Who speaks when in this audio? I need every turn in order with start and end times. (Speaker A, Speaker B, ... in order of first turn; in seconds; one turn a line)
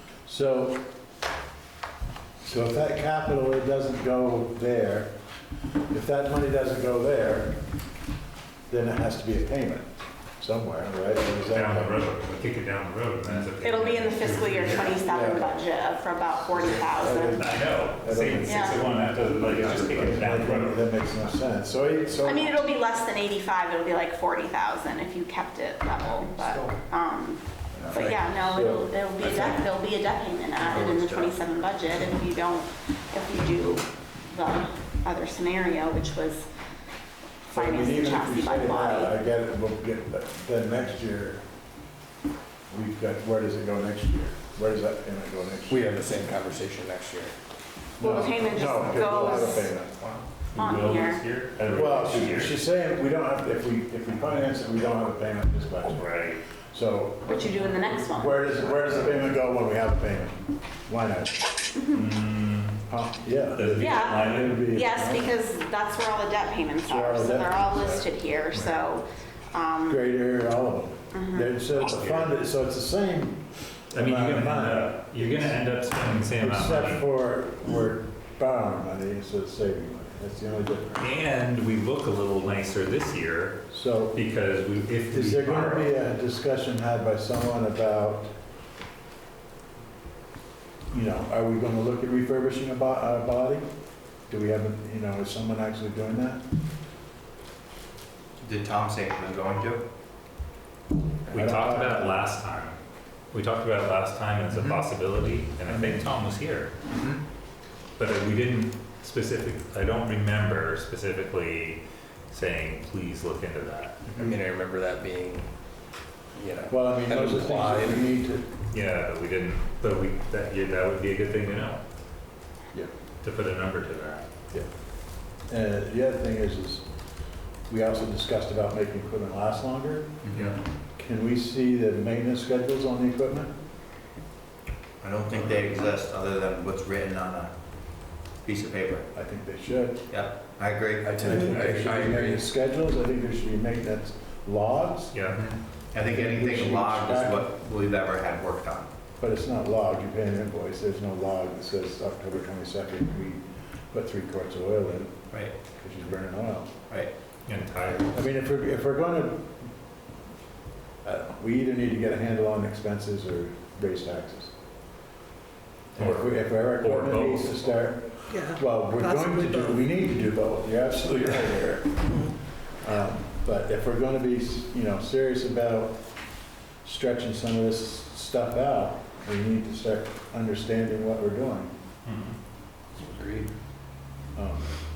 Speaker A: 0.3-0.8
Speaker A: 2.4-5.1
Speaker A: 5.9-7.6
Speaker A: 8.7-9.9
Speaker A: 10.4-12.0
Speaker B: 11.5-15.0
Speaker C: 13.6-17.4
Speaker A: 15.0-15.6
Speaker A: 16.5-22.6
Speaker B: 17.3-20.9
Speaker C: 18.4-18.8
Speaker C: 22.2-36.5
Speaker D: 26.4-26.7
Speaker D: 27.7-28.1
Speaker A: 28.3-28.9
Speaker D: 30.6-31.4
Speaker C: 37.5-39.1
Speaker A: 37.5-41.4
Speaker A: 42.7-45.9
Speaker E: 45.7-47.3
Speaker A: 48.0-50.0
Speaker C: 48.0-49.7
Speaker B: 50.0-52.6
Speaker C: 50.5-51.2
Speaker A: 51.6-56.1
Speaker B: 55.9-56.4
Speaker A: 56.7-61.4
Speaker C: 57.3-58.7
Speaker B: 61.9-62.8
Speaker A: 62.9-65.3
Speaker B: 63.5-64.7
Speaker C: 63.8-70.0
Speaker A: 66.8-68.1
Speaker B: 68.5-68.8
Speaker A: 69.9-75.6
Speaker C: 71.1-71.5
Speaker B: 71.8-72.3
Speaker B: 73.9-77.0
Speaker A: 76.3-81.1
Speaker B: 81.0-86.0
Speaker A: 83.7-84.2
Speaker A: 85.1-88.3
Speaker A: 90.9-93.7
Speaker A: 94.3-96.4
Speaker D: 98.4-99.8
Speaker A: 101.3-102.3
Speaker B: 101.3-102.8
Speaker B: 103.3-106.7
Speaker D: 104.5-104.8
Speaker D: 106.9-107.2
Speaker B: 108.0-114.3
Speaker A: 114.1-114.3
Speaker E: 114.2-115.5
Speaker E: 116.3-118.0
Speaker A: 116.7-118.5
Speaker B: 118.7-121.8
Speaker B: 123.2-124.3
Speaker A: 125.5-126.8
Speaker A: 127.7-130.2
Speaker D: 130.2-130.6
Speaker A: 130.9-133.5
Speaker D: 135.0-137.5
Speaker D: 138.4-139.1
Speaker A: 139.1-140.1
Speaker D: 140.1-141.3
Speaker E: 141.0-142.4
Speaker A: 141.2-145.1
Speaker B: 145.1-145.4
Speaker D: 145.3-148.9
Speaker A: 146.0-147.5
Speaker A: 149.2-156.7
Speaker B: 157.5-158.2
Speaker A: 158.1-159.5
Speaker A: 161.0-164.5
Speaker A: 165.9-172.3
Speaker B: 166.0-167.5
Speaker A: 172.8-176.0
Speaker A: 176.8-181.7
Speaker B: 182.0-182.4
Speaker E: 183.0-183.5
Speaker A: 184.3-184.7